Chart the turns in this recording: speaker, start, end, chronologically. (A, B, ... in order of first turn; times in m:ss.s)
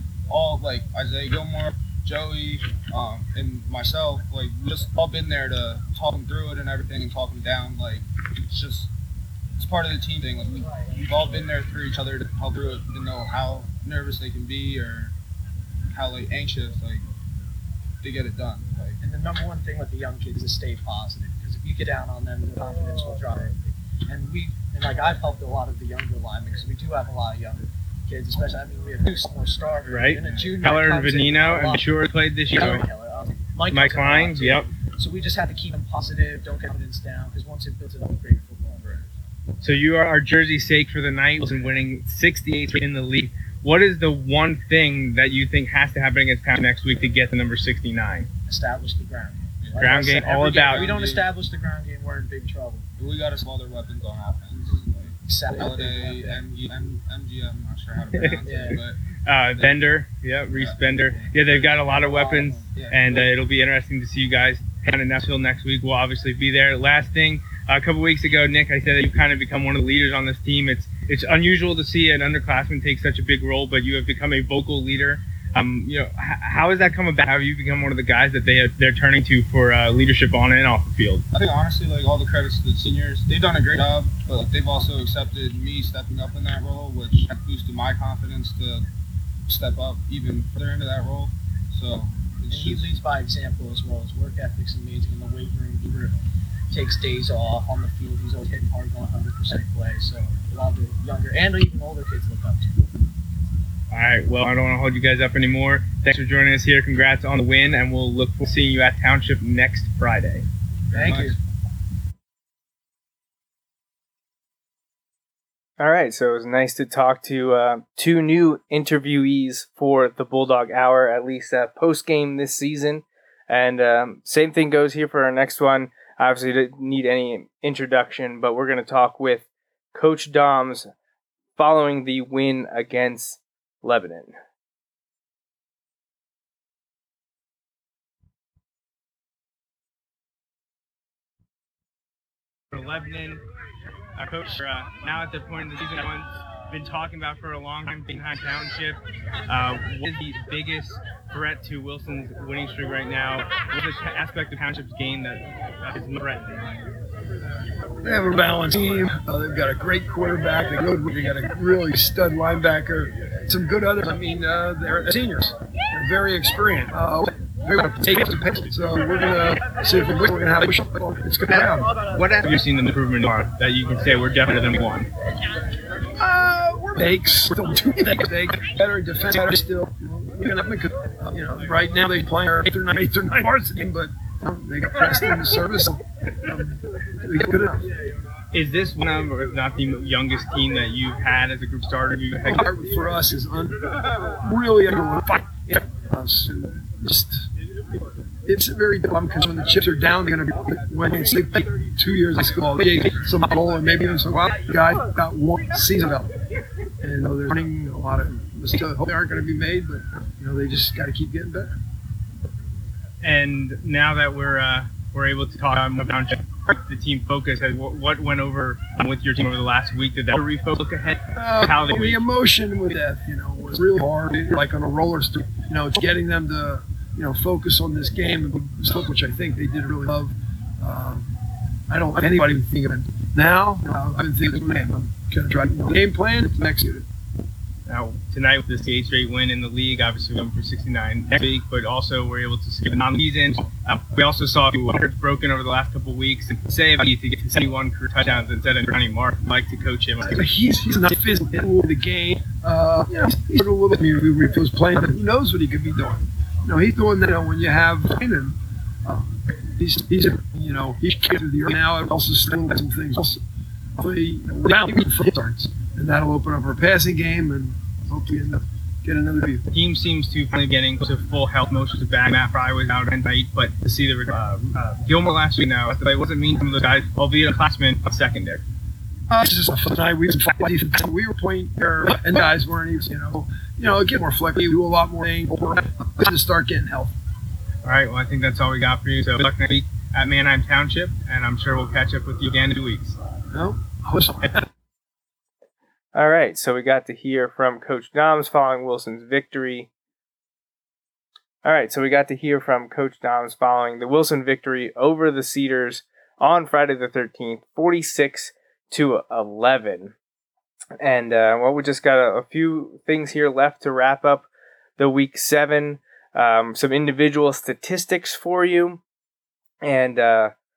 0:00.3-0:08.9 A
0:09.6-0:15.1 A
0:15.9-0:17.0 A
0:18.0-0:19.0 A
0:19.0-0:23.5 B
0:24.1-0:31.9 B
0:29.9-0:32.8 C
0:32.5-0:39.1 B
0:33.7-0:34.7 C
0:39.6-0:48.3 C
0:48.5-0:52.8 B
0:49.6-0:51.3 A
0:49.8-0:50.9 C
0:53.0-0:59.0 A
0:55.2-0:56.4 B
0:58.1-0:58.4 C
0:58.4-0:58.8 B
0:59.2-1:21.2 C
0:59.5-0:59.9 A
1:00.5-1:01.2 A
1:02.0-1:02.7 B
1:02.7-1:03.3 A
1:21.3-1:28.8 A
1:29.5-1:32.9 A
1:32.5-1:36.1 B
1:36.7-1:42.9 B
1:43.9-1:50.4 C
1:50.9-1:51.4 A
1:50.9-1:51.4 B
1:55.8-2:10.9 D
2:11.6-2:14.3 D
2:22.7-2:23.4 C
2:24.2-2:36.7 C
2:38.0-2:51.9 E
2:51.5-2:55.1 C
2:56.2-3:07.8 E
3:08.5-3:12.7 C
3:12.4-3:17.5 E
3:18.4-3:26.3 E
3:27.0-3:31.7 E
3:33.2-3:42.2 C
3:41.3-3:51.3 E
3:51.9-3:57.0 E
3:57.9-4:10.4 C
4:10.2-4:23.4 E
4:24.0-4:29.6 E
4:29.7-4:38.6 C
4:39.3-4:47.1 E
4:47.8-4:53.2 C
4:53.5-4:54.6 E
4:56.1-4:59.9 D
5:01.6-5:10.1 D
5:11.0-5:19.0 D
5:19.8-5:20.5 D